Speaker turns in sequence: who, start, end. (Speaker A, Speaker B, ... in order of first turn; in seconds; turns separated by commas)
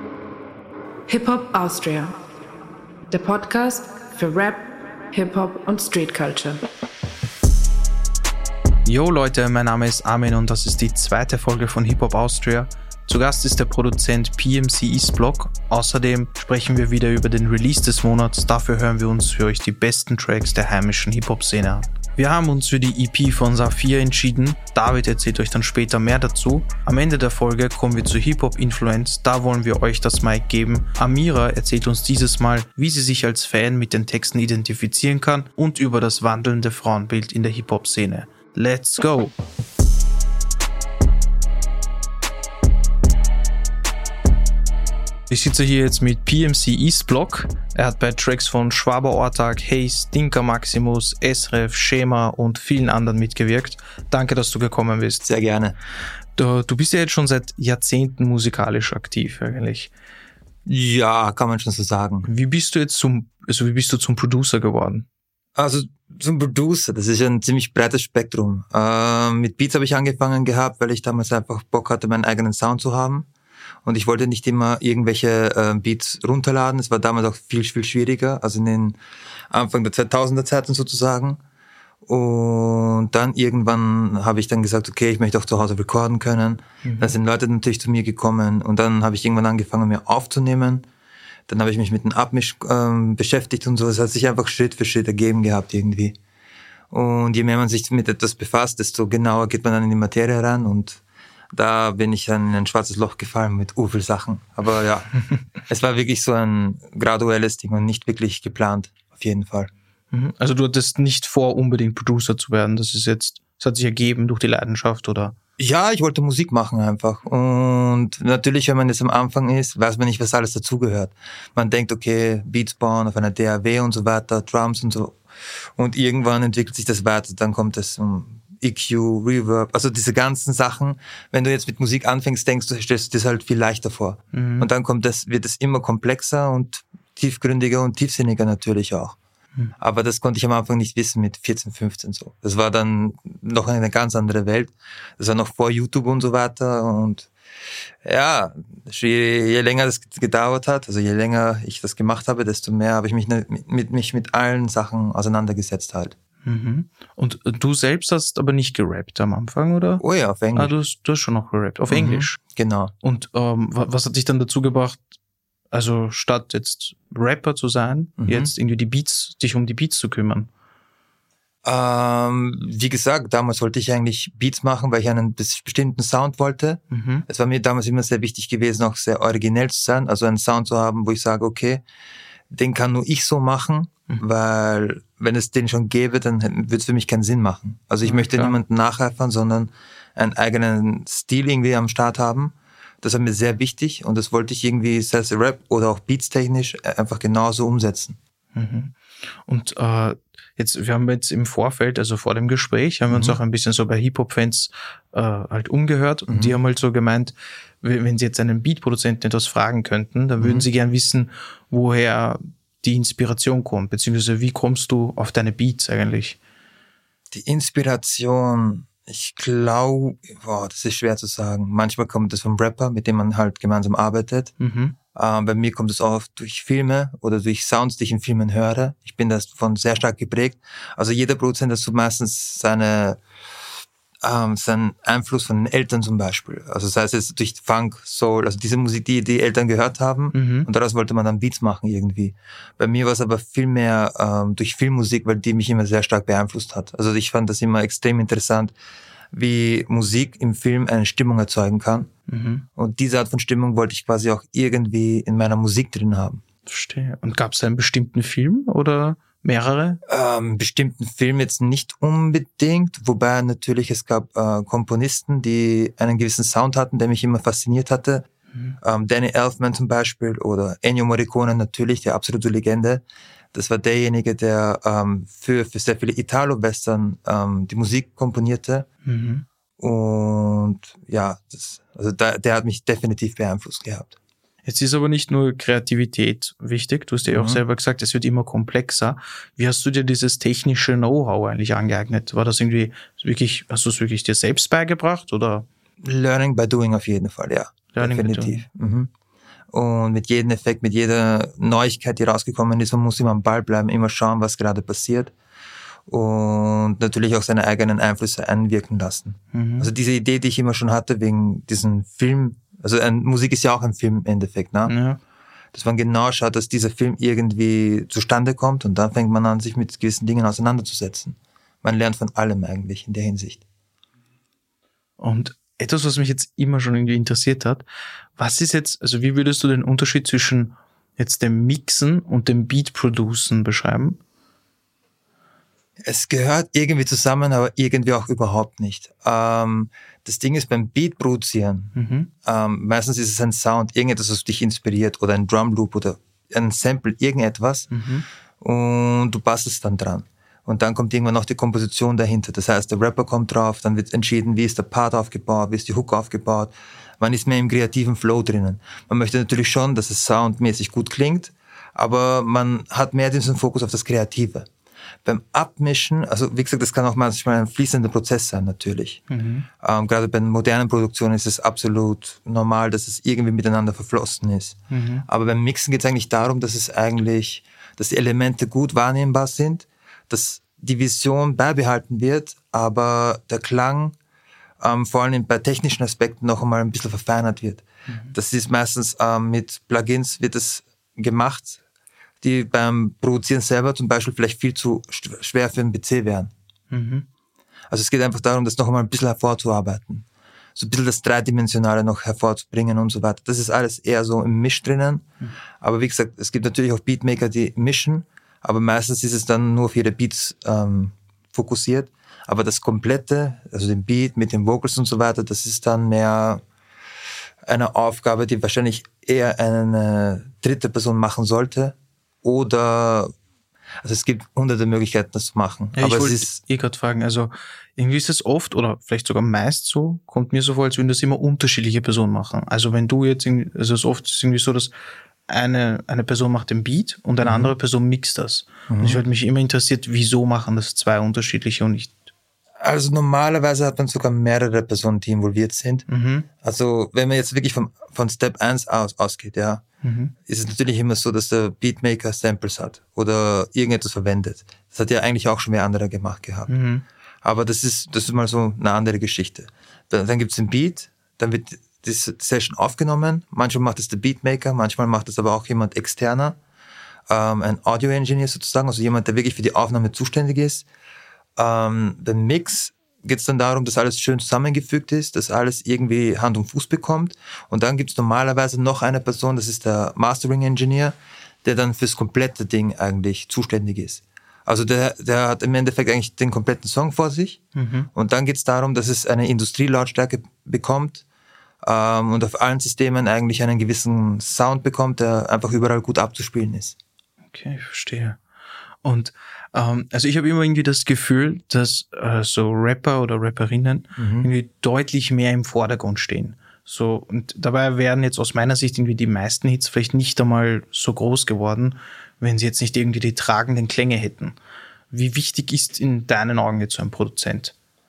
Speaker A: 1.1-2.1, Speaker A: 3.1-6.6, Speaker B: 8.8-39.3, Speaker B: 45.3-55.2, Speaker C: 55.2-55.7, Speaker B: 56.4-59.9, Speaker C: 60.6-62.3, Speaker B: 62.2-65.0, Speaker C: 65.5-73.3, Speaker C: 73.8-79.0, Speaker C: 79.5-81.4, Speaker C: 82.0-90.8, Speaker B: 86.8-87.1, Speaker C: 91.5-96.2, Speaker C: 96.9-101.0, Speaker C: 101.5-109.7, Speaker B: 110.1-115.3, Speaker C: 115.6-139.2, Speaker B: 134.3-134.7, Speaker C: 139.8-147.3, Speaker C: 148.0-156.1, Speaker B: 156.4-160.0, Speaker C: 160.0-160.8, Speaker B: 160.5-162.4, Speaker C: 161.9-162.9, Speaker B: 163.0-165.0, Speaker B: 165.7-170.5, Speaker C: 168.2-168.5, Speaker C: 171.6-181.8, Speaker B: 176.9-177.2, Speaker C: 182.5-198.2, Speaker B: 188.0-188.6, Speaker B: 198.5-216.4, Speaker C: 203.1-203.4, Speaker C: 206.3-206.6, Speaker C: 210.4-210.7, Speaker C: 217.3-224.5, Speaker B: 224.6-224.9, Speaker C: 225.1-233.2, Speaker C: 234.2-248.7, Speaker B: 240.3-240.7, Speaker C: 249.3-252.1, Speaker B: 252.3-252.7, Speaker C: 252.8-256.4, Speaker B: 256.7-260.0, Speaker C: 260.1-268.2, Speaker C: 268.8-278.9, Speaker B: 279.0-279.4, Speaker C: 279.8-284.1, Speaker B: 284.6-295.7, Speaker C: 287.3-287.6, Speaker C: 296.0-299.1, Speaker B: 297.9-298.6, Speaker C: 299.7-305.3, Speaker C: 306.1-314.9, Speaker B: 309.5-309.9, Speaker B: 314.9-315.2, Speaker C: 315.7-323.6, Speaker B: 325.2-327.8, Speaker B: 328.4-334.2, Speaker C: 336.0-347.9, Speaker B: 341.9-342.3, Speaker B: 347.9-348.2, Speaker C: 348.6-364.7, Speaker C: 365.2-369.2, Speaker B: 369.3-369.7, Speaker C: 369.8-384.1, Speaker B: 374.9-375.2, Speaker C: 384.8-391.8, Speaker B: 388.1-388.3, Speaker C: 392.4-396.5, Speaker B: 396.9-397.2, Speaker C: 397.9-400.2, Speaker C: 400.8-405.2, Speaker C: 405.8-416.6, Speaker C: 417.6-423.3, Speaker C: 424.0-426.6, Speaker B: 425.9-434.9, Speaker B: 435.5-442.2, Speaker C: 437.4-437.7, Speaker C: 438.9-439.2, Speaker C: 442.8-446.1, Speaker B: 446.1-446.5, Speaker C: 446.6-449.8, Speaker B: 450.0-450.3, Speaker C: 450.4-456.8, Speaker B: 456.7-457.0, Speaker C: 457.4-466.6, Speaker C: 467.3-470.9, Speaker C: 471.6-491.2, Speaker B: 487.7-488.1, Speaker C: 491.8-497.0, Speaker B: 497.5-498.4, Speaker B: 499.0-514.5, Speaker C: 504.1-504.5, Speaker B: 515.1-517.7